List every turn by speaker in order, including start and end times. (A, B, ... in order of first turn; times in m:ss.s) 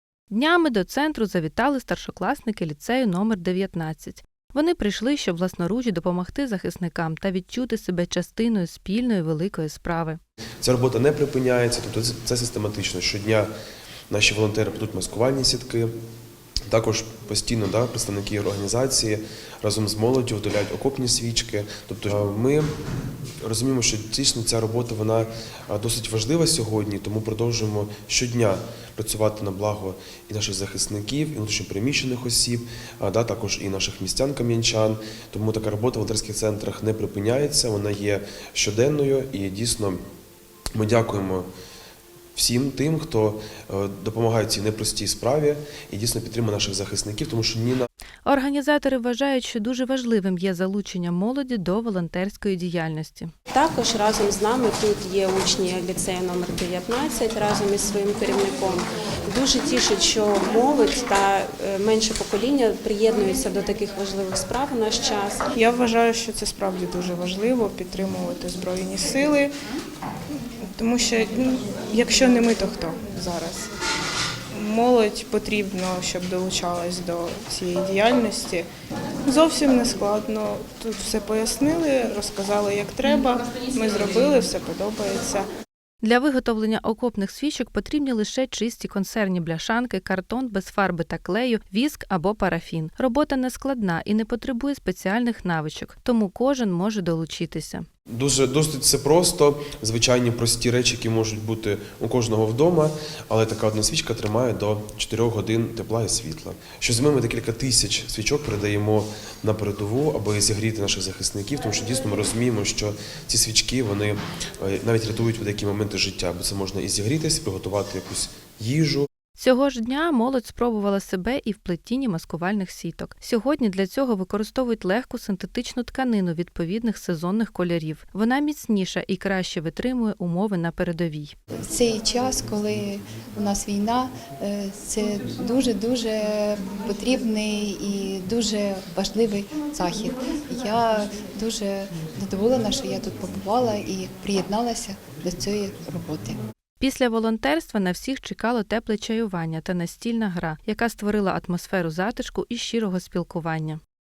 0:00.3-0:10.2 A
0:10.6-0:13.5 B
0:14.1-0:15.9 B
0:16.7-0:22.7 B
0:23.4-0:40.0 B
0:40.7-0:41.5 B
0:42.4-0:47.9 B
0:48.2-0:53.3 A
0:53.5-1:05.5 C
1:05.5-1:09.5 D
1:10.6-1:13.7 D
1:14.5-1:18.7 D
1:19.2-1:25.5 D
1:26.0-1:37.8 A
1:38.1-1:59.1 B
1:59.4-2:11.3 A
2:11.6-2:26.4 E
2:26.8-2:33.8 A